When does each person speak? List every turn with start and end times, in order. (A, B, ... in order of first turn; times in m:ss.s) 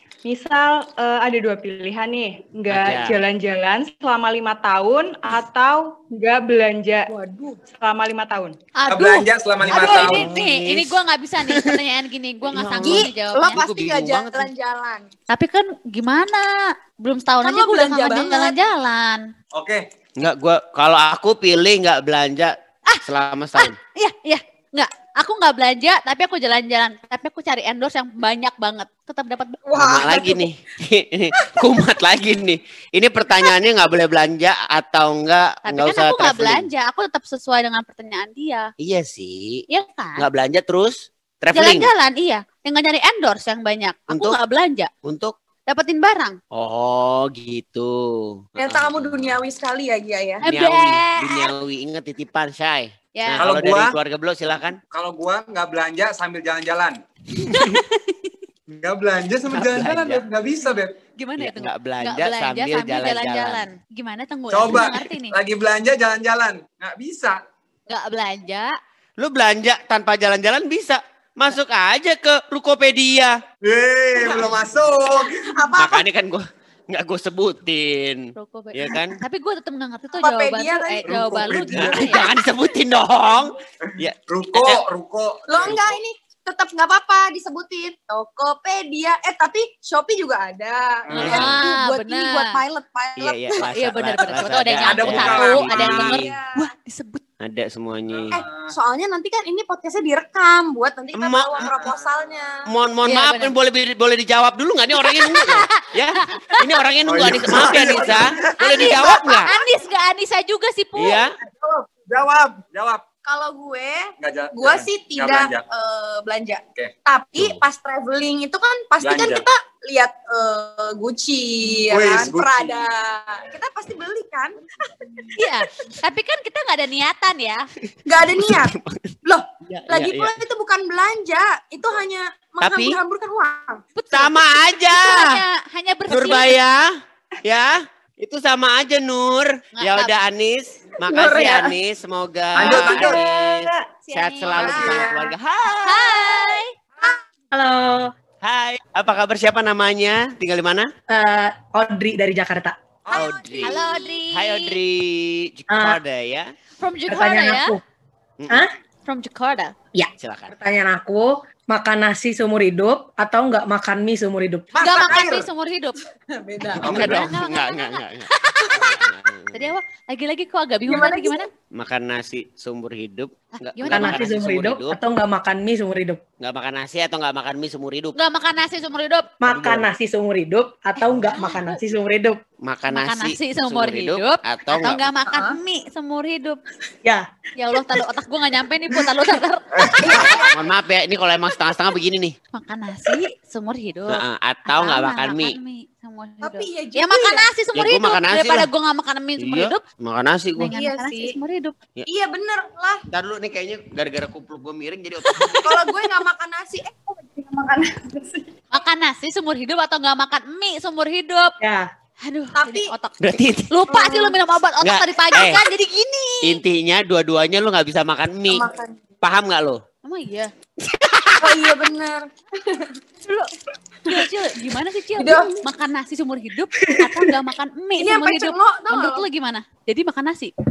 0:00.2-0:07.1 A
0:02.7-0:03.2 B
0:07.1-0:07.6 C
0:07.8-0:08.5 A
0:08.8-0:13.6 D
0:08.9-0:10.3 E
0:09.6-0:10.9 B
0:11.5-0:11.8 B
0:12.5-0:14.5 B
0:12.8-0:15.1 C
0:15.3-0:19.2 D
0:17.4-0:18.6 C
0:19.5-0:19.8 E
0:20.2-0:23.8 B
0:23.6-0:29.6 D
0:29.7-0:30.5 C
0:29.7-0:36.7 B
0:35.6-0:38.7 D
0:38.8-0:39.6 B
0:39.7-0:40.2 D
0:40.2-0:41.9 B
0:41.5-0:44.9 D
0:44.1-0:44.4 B
0:45.0-0:45.3 B
0:45.7-0:46.4 D
0:46.5-0:49.4 B
0:48.6-0:50.4 C
0:50.4-0:51.5 D
0:50.4-0:54.8 B
0:53.1-0:53.4 D
0:53.4-0:53.9 E
0:54.9-0:57.0 E
0:57.3-0:57.8 B
0:57.4-0:58.3 D
0:58.7-1:00.9 E
0:59.5-1:00.2 B
1:01.2-1:05.3 D
1:01.4-1:03.6 B
1:04.5-1:07.4 E
1:07.9-1:08.7 D
1:09.2-1:13.4 B
1:13.6-1:15.6 E
1:15.2-1:16.0 C
1:15.8-1:19.2 B
1:18.4-1:22.3 D
1:20.2-1:21.5 C
1:21.1-1:22.1 E
1:21.8-1:24.8 B
1:23.9-1:25.8 E
1:25.5-1:33.6 C
1:31.1-1:31.6 E
1:31.1-1:32.6 D
1:31.2-1:31.6 B
1:33.2-1:36.3 B
1:33.6-1:37.2 D
1:34.8-1:36.3 E
1:36.0-1:36.5 C
1:37.4-1:38.4 B
1:38.1-1:38.7 E
1:38.3-1:42.6 C
1:41.1-1:41.7 B
1:41.6-1:42.3 E
1:42.6-1:49.5 B
1:43.0-1:43.6 D
1:44.9-1:46.7 D
1:47.0-1:48.5 E
1:48.6-1:51.2 D
1:51.0-1:51.3 B
1:51.5-1:53.0 E
1:53.2-2:05.2 C
1:54.2-1:55.6 E
1:57.4-1:57.6 B
1:59.0-1:59.4 E
2:01.9-2:02.8 E
2:04.8-2:05.3 E
2:05.4-2:07.7 D
2:07.9-2:10.4 B
2:08.0-2:08.7 C
2:09.2-2:13.8 C
2:12.6-2:13.0 B
2:14.0-2:16.6 D
2:14.1-2:15.4 B
2:16.1-2:16.9 B
2:17.4-2:26.4 B
2:19.7-2:20.2 D
2:21.1-2:21.7 C
2:22.5-2:23.2 E
2:24.0-2:25.1 D
2:24.6-2:25.3 C
2:25.8-2:26.7 D
2:27.5-2:28.1 F
2:28.4-2:30.9 B
2:31.1-2:32.7 F
2:33.0-2:33.3 E
2:33.1-2:34.2 C
2:33.1-2:33.8 B
2:33.6-2:34.8 D
2:34.3-2:36.5 B
2:35.7-2:36.0 F
2:36.8-2:37.7 D
2:37.1-2:37.8 F
2:38.4-2:38.6 B
2:39.0-2:39.7 D
2:39.9-2:44.7 F
2:40.2-2:40.5 B
2:44.7-2:45.4 E
2:44.8-2:46.0 D
2:46.3-2:47.1 C
2:46.8-2:47.2 E
2:46.8-2:49.7 B
2:46.8-2:48.9 D
2:49.5-2:51.5 D
2:50.8-2:51.5 C
2:51.7-2:55.0 B
2:53.6-2:54.3 D
2:53.9-2:56.2 F
2:56.4-2:58.2 B
2:58.1-2:59.3 D
2:59.4-3:02.4 F
2:59.5-2:59.9 B
3:01.1-3:01.8 D
3:02.6-3:05.0 B
3:02.9-3:06.6 D
3:05.3-3:05.6 C
3:07.6-3:10.4 D
3:09.7-3:10.2 E
3:10.0-3:10.7 C
3:10.1-3:12.3 B
3:12.5-3:19.8 D
3:14.1-3:15.6 B
3:16.4-3:17.5 C
3:17.7-3:18.7 B
3:19.4-3:20.7 B
3:20.6-3:21.8 D
3:20.7-3:21.3 C
3:22.1-3:23.0 C
3:23.1-3:25.6 B
3:25.2-3:25.8 D
3:25.5-3:28.4 C
3:28.7-3:31.6 D
3:31.6-3:31.9 F
3:32.2-3:33.2 D
3:32.5-3:32.9 C
3:33.2-3:33.7 B
3:33.7-3:36.6 D
3:33.9-3:34.4 C
3:34.8-3:35.6 B
3:36.4-3:38.6 B
3:38.5-3:39.0 C
3:39.2-3:39.8 B
3:40.0-3:40.5 D
3:41.2-3:41.6 D
3:41.4-3:43.0 C
3:43.2-3:43.5 D
3:44.0-3:50.5 D
3:45.2-3:45.6 C
3:48.0-3:49.2 C